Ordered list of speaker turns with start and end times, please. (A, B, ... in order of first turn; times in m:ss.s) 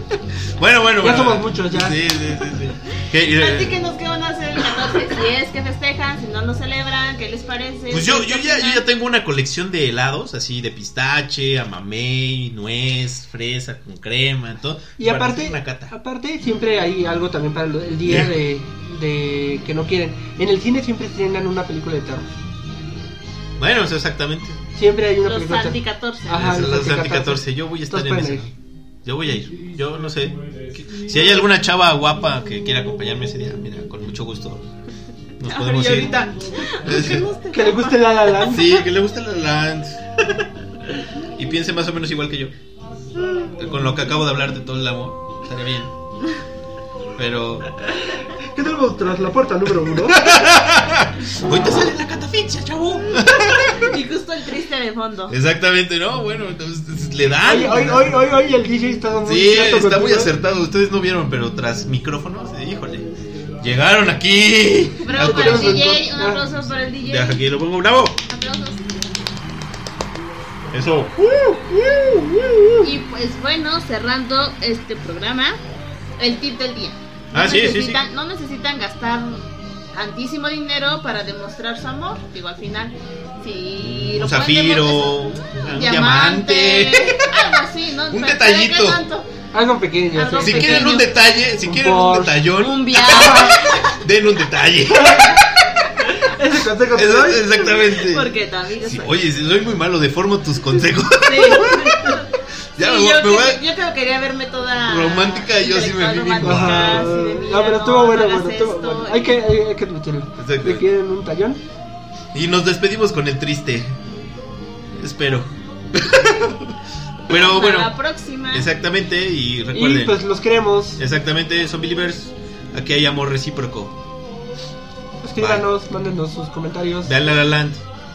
0:00.6-0:03.8 A
0:01.0-0:02.0 B
0:03.3-0:08.8 C
0:07.9-0:15.9 A
0:15.0-0:22.3 B
0:18.0-0:18.4 A
0:23.6-0:24.6 A
0:24.7-0:28.5 B
0:25.2-0:26.5 C
0:26.3-0:28.5 A
0:29.0-0:34.7 A
0:35.4-0:37.3 A
0:35.4-0:38.8 C
0:37.5-0:38.8 B
0:38.4-0:40.2 A
0:41.3-0:42.5 A
0:43.5-0:45.9 A
0:47.2-0:47.7 A
0:48.3-0:50.3 B
0:49.9-0:53.9 A
0:53.5-0:55.4 C
0:55.3-0:58.2 A
0:57.4-1:00.3 B
0:59.2-1:03.1 A
1:03.6-1:06.0 A
1:05.0-1:07.4 C
1:05.2-1:06.4 B
1:06.6-1:08.2 A
1:08.3-1:08.9 C
1:10.7-1:11.3 A
1:11.3-1:12.9 B
1:12.8-1:15.6 C
1:16.2-1:29.3 C
1:17.3-1:18.0 A
1:23.8-1:27.4 A
1:28.1-1:29.0 A
1:29.5-1:31.0 B
1:30.1-1:31.1 C
1:30.4-1:35.9 A
1:31.6-1:32.5 B
1:32.5-1:34.0 C
1:35.0-1:35.3 B
1:36.2-1:37.5 B
1:36.8-1:42.2 A
1:37.6-1:39.2 C
1:41.2-1:49.4 C
1:42.8-1:43.6 A
1:44.9-1:47.1 A
1:46.4-1:51.6 B
1:50.4-1:50.8 A
1:52.3-1:54.0 A
1:55.0-1:57.9 A
1:57.3-1:58.7 C
1:58.5-2:00.2 A
1:59.7-2:01.0 B
2:01.0-2:04.0 A
2:05.2-2:07.2 B
2:05.4-2:05.7 A
2:07.0-2:07.8 A